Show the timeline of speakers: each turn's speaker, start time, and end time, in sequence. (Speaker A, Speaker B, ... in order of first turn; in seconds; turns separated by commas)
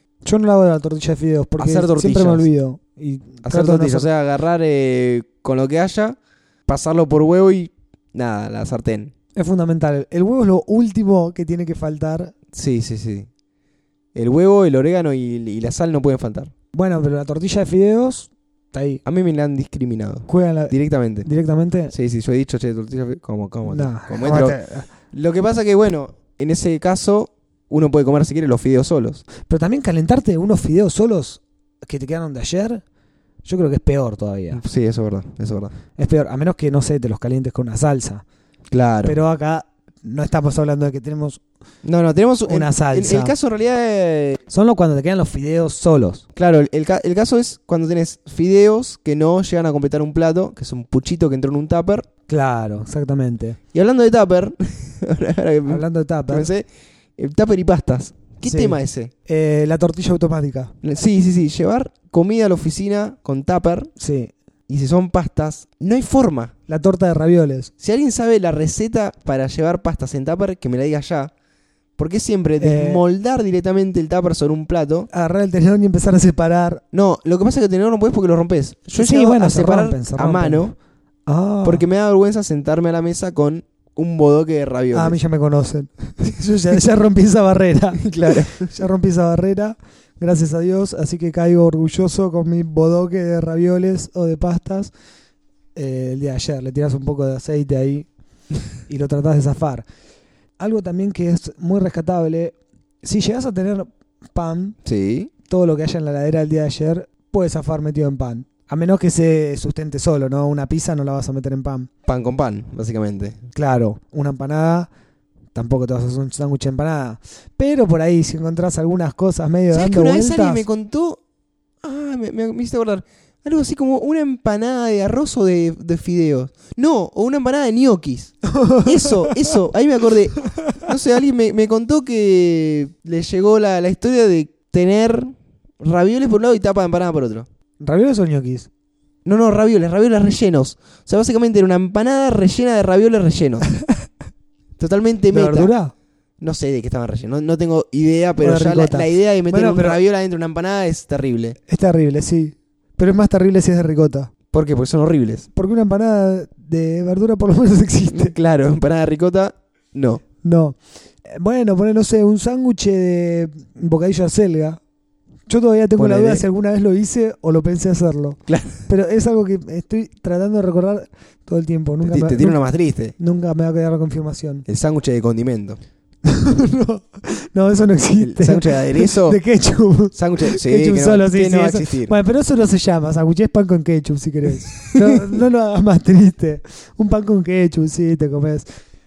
Speaker A: 0.2-4.1, Speaker B: 1.6-2.5, Speaker B: 3.4-9.1, Speaker A: 9.3-12.3, Speaker B: 12.5-13.3, Speaker B: 14.1-16.5, Speaker A: 16.7-19.0, Speaker B: 19.0-21.3, Speaker A: 20.3-21.9, Speaker B: 21.9-24.6, Speaker A: 23.6-24.9, Speaker B: 25.1-29.2, Speaker A: 29.4-32.8, Speaker A: 33.4-34.6, Speaker B: 34.5-35.7, Speaker A: 36.0-38.2, Speaker B: 38.7-39.1, Speaker A: 39.0-41.4, Speaker B: 41.8-44.4, Speaker A: 42.5-43.3, Speaker A: 44.5-46.2, Speaker B: 46.4-52.1, Speaker A: 52.3-53.6, Speaker B: 53.7-56.6, Speaker A: 55.7-56.5, Speaker B: 57.2-59.1, Speaker A: 58.5-60.7, Speaker B: 60.8-63.9, Speaker A: 64.0-64.3, Speaker B: 64.7-66.5, Speaker A: 66.7-67.7, Speaker B: 67.8-71.3, Speaker B: 72.0-75.1, Speaker A: 72.6-73.0, Speaker A: 75.1-76.8, Speaker B: 76.9-80.8, Speaker A: 79.0-80.6, Speaker A: 81.3-81.8, Speaker B: 81.6-85.2, Speaker A: 84.9-94.9, Speaker B: 88.0-88.7, Speaker A: 95.7-98.1, Speaker A: 98.9-99.8, Speaker A: 100.6-104.8, Speaker B: 104.8-105.3, Speaker A: 105.5-111.9, Speaker B: 112.0-113.4, Speaker A: 113.5-114.9, Speaker A: 115.5-120.6, Speaker B: 119.7-121.2, Speaker B: 121.8-137.5, Speaker A: 128.5-129.6, Speaker A: 137.8-138.7, Speaker B: 139.2-143.7, Speaker B: 144.8-145.7, Speaker A: 145.3-145.9, Speaker B: 146.4-151.6, Speaker A: 148.4-150.0, Speaker A: 151.7-154.3, Speaker B: 154.5-155.5, Speaker A: 155.5-158.3, Speaker B: 158.1-160.2, Speaker A: 160.4-164.8, Speaker A: 165.5-172.6, Speaker B: 166.0-166.4, Speaker B: 168.5-168.8, Speaker B: 172.0-173.1, Speaker A: 173.2-174.6, Speaker B: 174.7-175.8, Speaker A: 176.2-188.7, Speaker B: 178.2-179.4, Speaker B: 180.1-182.1, Speaker B: 184.6-185.3